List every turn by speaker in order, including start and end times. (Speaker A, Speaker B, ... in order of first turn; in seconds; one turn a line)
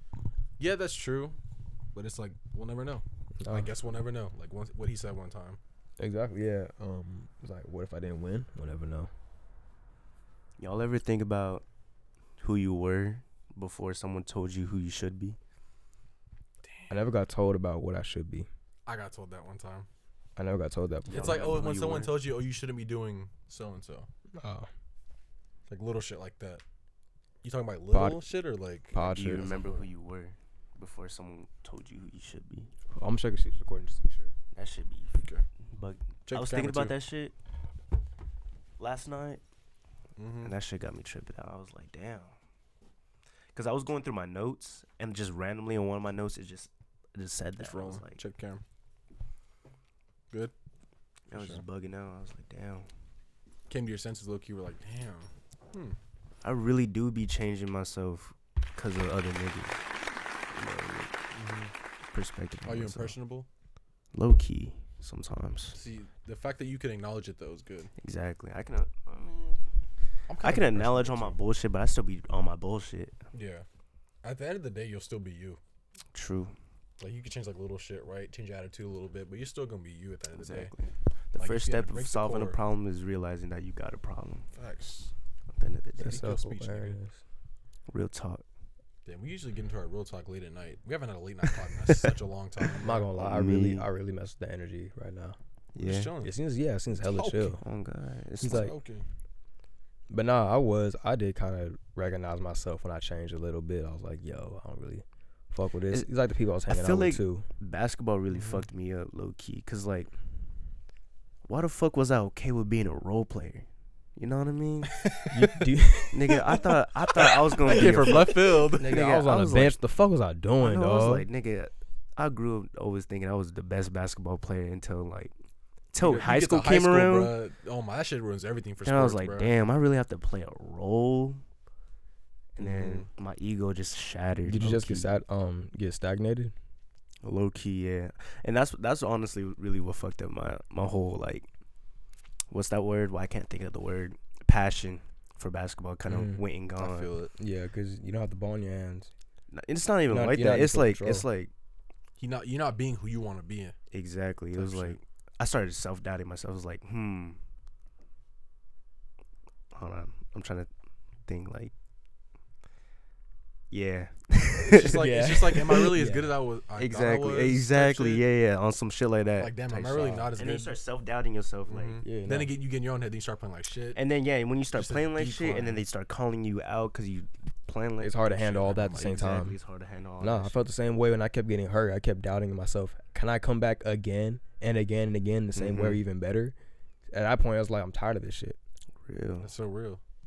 Speaker A: 0.6-1.4
Speaker A: 1.9-5.6
Speaker B: 3.4-3.7
Speaker B: 6.0-9.1
Speaker C: 10.6-11.7
Speaker C: 12.4-15.4
Speaker A: 16.6-17.1
Speaker B: 16.9-18.5
Speaker A: 18.9-19.9
Speaker B: 20.4-21.5
Speaker C: 21.1-22.2
Speaker A: 21.1-24.1
Speaker B: 24.4-24.7
Speaker A: 25.7-26.6
Speaker A: 27.4-29.9
Speaker B: 27.9-28.2
Speaker B: 28.9-29.5
Speaker C: 29.0-32.7
Speaker B: 33.0-34.3
Speaker C: 34.5-35.1
Speaker A: 35.1-35.5
Speaker C: 35.7-37.3
Speaker A: 36.3-37.0
Speaker C: 38.8-39.4
Speaker A: 40.2-40.5
Speaker C: 40.4-42.3
Speaker C: 43.5-48.2
Speaker A: 47.6-48.6
Speaker C: 51.3-52.9
Speaker A: 51.3-51.6
Speaker A: 53.7-56.0
Speaker C: 56.4-59.8
Speaker C: 60.5-61.2
Speaker A: 61.3-61.7
Speaker C: 62.1-63.2
Speaker A: 62.6-63.5
Speaker C: 64.1-65.8
Speaker A: 65.7-67.9
Speaker C: 68.0-69.6
Speaker A: 70.3-71.4
Speaker C: 70.4-73.2
Speaker A: 73.3-73.7
Speaker A: 74.2-75.6
Speaker C: 76.1-76.5
Speaker A: 77.0-80.7
Speaker C: 80.3-84.5
Speaker A: 81.4-82.6
Speaker A: 84.5-85.1
Speaker C: 85.5-86.3
Speaker B: 86.0-87.2
Speaker A: 86.0-87.0
Speaker C: 87.9-88.4
Speaker A: 89.0-93.1
Speaker B: 92.8-95.4
Speaker C: 93.2-93.9
Speaker C: 95.8-96.1
Speaker A: 95.8-96.3
Speaker B: 96.2-97.6
Speaker A: 97.0-97.6
Speaker C: 97.6-98.7
Speaker B: 98.4-98.8
Speaker A: 98.5-99.0
Speaker B: 100.1-107.5
Speaker C: 106.7-110.1
Speaker A: 108.3-108.6
Speaker C: 111.5-115.2
Speaker A: 115.0-115.6
Speaker B: 115.3-116.3
Speaker C: 116.1-119.8
Speaker A: 117.2-119.1
Speaker B: 118.7-121.3
Speaker C: 120.6-125.3
Speaker C: 125.9-127.4
Speaker A: 126.0-129.5
Speaker C: 128.8-131.4
Speaker C: 132.6-135.1
Speaker A: 132.6-133.1
Speaker B: 134.5-136.5
Speaker C: 137.2-141.5
Speaker C: 142.5-147.1
Speaker B: 146.1-146.4
Speaker A: 146.8-147.3
Speaker B: 147.4-149.1
Speaker C: 149.5-151.5
Speaker B: 150.1-151.3
Speaker A: 152.2-153.8
Speaker C: 153.9-157.4
Speaker A: 154.6-155.0
Speaker C: 159.7-160.7
Speaker C: 161.3-161.7
Speaker C: 163.7-165.8
Speaker A: 164.7-168.2
Speaker B: 164.8-166.3
Speaker C: 166.8-172.0
Speaker A: 169.4-170.8
Speaker B: 169.9-170.3
Speaker A: 171.7-174.0
Speaker B: 172.0-172.5
Speaker C: 173.9-180.6
Speaker A: 174.7-175.8
Speaker B: 178.0-179.6
Speaker A: 178.3-179.4
Speaker B: 180.2-186.5
Speaker C: 185.6-186.0
Speaker B: 187.1-188.6
Speaker C: 189.1-189.5
Speaker A: 189.4-190.0